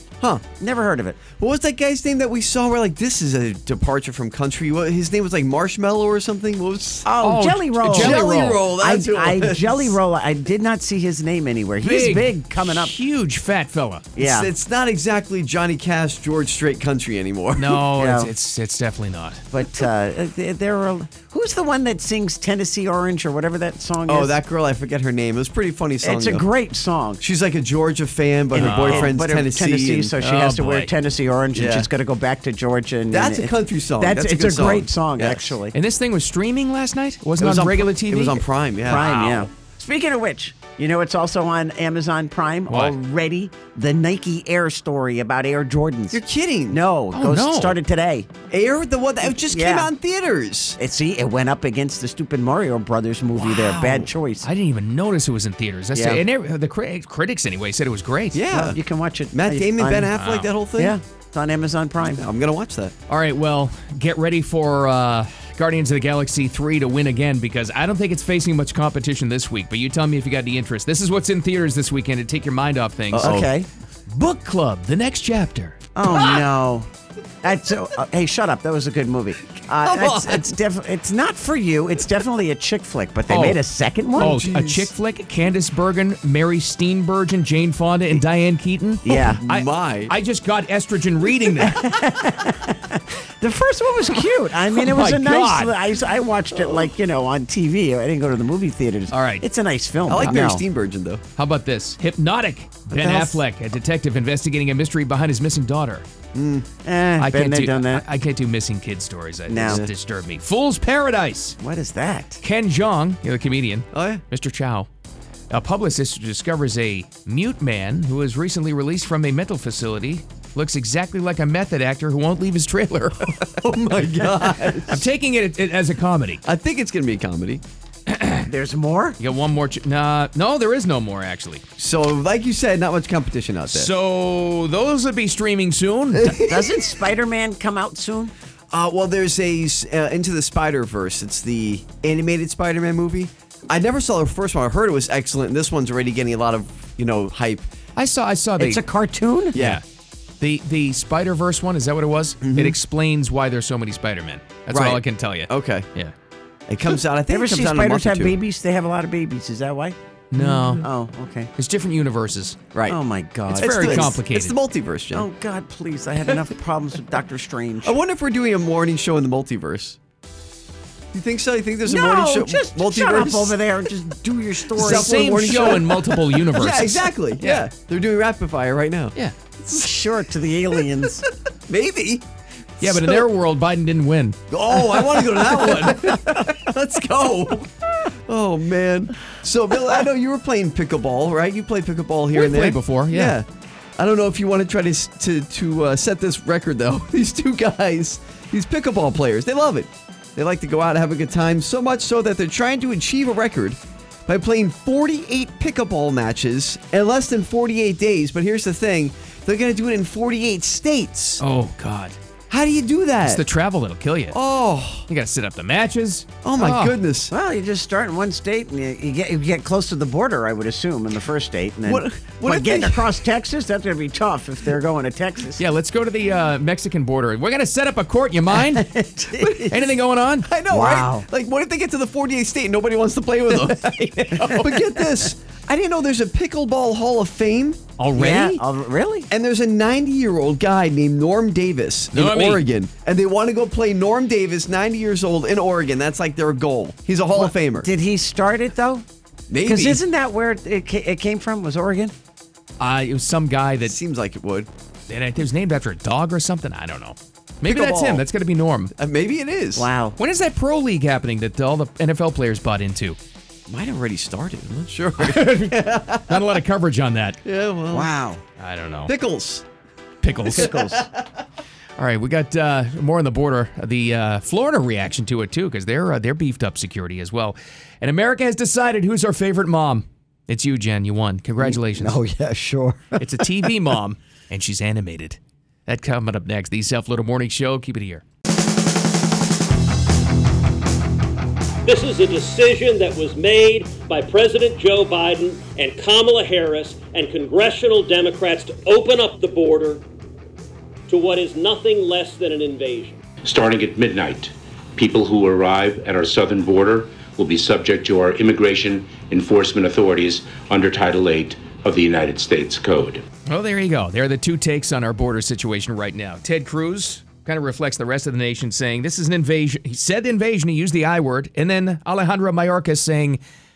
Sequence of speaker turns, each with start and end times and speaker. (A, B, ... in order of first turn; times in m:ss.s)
0:00.2-0:00.4 A
0:00.6-0:01.2 B
0:01.3-0:07.1 A
0:07.0-0:13.0 B
0:07.2-0:08.6 C
0:07.8-0:09.9 A
0:11.8-0:14.1 C
0:14.2-0:14.5 B
0:14.2-0:17.8 A
0:17.6-0:19.4 C
0:17.9-0:18.3 B
0:19.5-0:24.3 B
0:24.1-0:26.4 A
0:26.0-0:27.2 B
0:27.2-0:30.1 A
0:28.5-0:35.8 B
0:28.5-0:29.1 C
0:30.2-0:30.9 C
0:31.5-0:31.9 A
0:33.1-0:35.5 A
0:35.7-0:39.4 C
0:37.4-0:39.2 A
0:38.8-0:48.3 B
0:42.7-0:42.9 C
0:46.1-0:46.8 A
0:47.1-0:47.8 C
0:48.5-0:50.8 A
0:49.2-0:49.9 B
0:50.8-0:54.5 B
0:53.4-0:54.1 A
0:54.4-0:58.4 C
0:55.9-0:56.2 B
0:58.3-0:58.8 A
0:58.5-1:00.1 B
0:59.3-1:01.0 A
1:00.1-1:00.5 C
1:00.8-1:02.2 B
1:02.0-1:02.9 A
1:03.1-1:13.4 C
1:13.1-1:13.5 A
1:13.2-1:13.7 B
1:14.1-1:15.8 C
1:15.9-1:16.9 B
1:16.1-1:16.4 A
1:17.4-1:24.4 B
1:19.8-1:20.5 A
1:23.3-1:23.6 C
1:24.2-1:24.9 A
1:24.2-1:31.9 C
1:29.0-1:29.4 B
1:29.1-1:30.1 A
1:31.6-1:40.6 B
1:34.7-1:35.7 C
1:39.1-1:39.5 C
1:40.1-1:41.2 A
1:40.2-1:40.5 C
1:41.4-1:46.0 C
1:42.9-1:43.4 B
1:46.3-1:46.7 A
1:46.8-1:48.0 B
1:47.2-1:51.6 C
1:49.5-1:49.9 B
1:49.6-1:49.9 A
1:51.6-1:52.4 B
1:52.4-1:54.9 C
1:53.9-1:54.2 A
1:55.5-2:03.5 C
2:03.5-2:05.0 A
2:04.9-2:06.4 C
2:06.4-2:07.6 A
2:08.1-2:08.5 C
2:08.4-2:09.2 B
2:09.2-2:11.6 C
2:11.8-2:13.9 A
2:13.7-2:16.4 C
2:16.2-2:16.7 A
2:16.4-2:18.3 B
2:18.7-2:27.7 A
2:28.0-2:28.8 C
2:28.6-2:29.6 B
2:29.5-2:29.8 A
2:29.5-2:29.8 C
2:30.4-2:36.1 C
2:32.4-2:32.8 A
2:34.7-2:35.9 A
2:36.7-2:38.3 A
2:37.3-2:40.0 B
2:40.3-2:40.8 C
2:40.4-2:40.8 A
2:40.8-2:41.5 B
2:41.6-2:42.6 C
2:42.7-2:43.0 A
2:42.9-2:44.2 B
2:43.5-2:44.6 C
2:43.5-2:45.3 A
2:45.1-2:48.0 B
2:47.8-2:50.0 A
2:51.1-2:53.6 A
2:51.8-2:55.8 B
2:54.7-2:59.9 A
2:54.8-2:57.7 C
2:59.8-3:01.2 B
3:01.7-3:02.2 A
3:02.8-3:03.2 A
3:02.8-3:04.4 C
3:04.5-3:13.4 A
3:05.4-3:06.6 B
3:12.3-3:13.4 C
3:14.0-3:31.4 A
3:31.4-3:32.2 C
3:32.5-3:33.4 A
3:33.2-3:34.4 C
3:34.3-3:35.0 A
3:35.1-3:37.0 C
3:36.4-3:37.3 A
3:37.3-3:45.6 B
3:41.8-3:43.0 A
3:45.6-3:48.9 C
3:48.5-3:49.8 B
3:49.6-3:50.5 C
3:50.4-3:57.8 A
3:50.7-3:51.2 B
3:53.8-3:54.5 C
3:54.3-3:55.0 B
3:58.0-3:58.6 C
3:58.1-3:59.3 B
3:59.3-4:07.9 A
4:02.1-4:02.6 C
4:07.3-4:09.0 B
4:09.5-4:10.0 A
4:09.6-4:12.1 B
4:12.8-4:13.9 C
4:13.8-4:14.7 A
4:15.1-4:18.9 C
4:17.6-4:18.2 A
4:19.0-4:19.9 A
4:19.7-4:20.2 B
4:20.2-4:23.2 C
4:23.7-4:26.4 A
4:25.2-4:27.4 C
4:27.4-4:28.1 A
4:27.9-4:28.4 B
4:28.6-4:29.1 C
4:29.0-4:29.6 A
4:30.2-4:30.8 C
4:30.5-4:31.1 B
4:30.5-4:31.1 A
4:32.0-4:42.2 C
4:41.6-4:43.3 B
4:43.2-4:48.2 C
4:51.8-5:00.0 D
5:01.1-5:03.2 D
5:03.4-5:13.2 E
5:13.5-5:23.4 C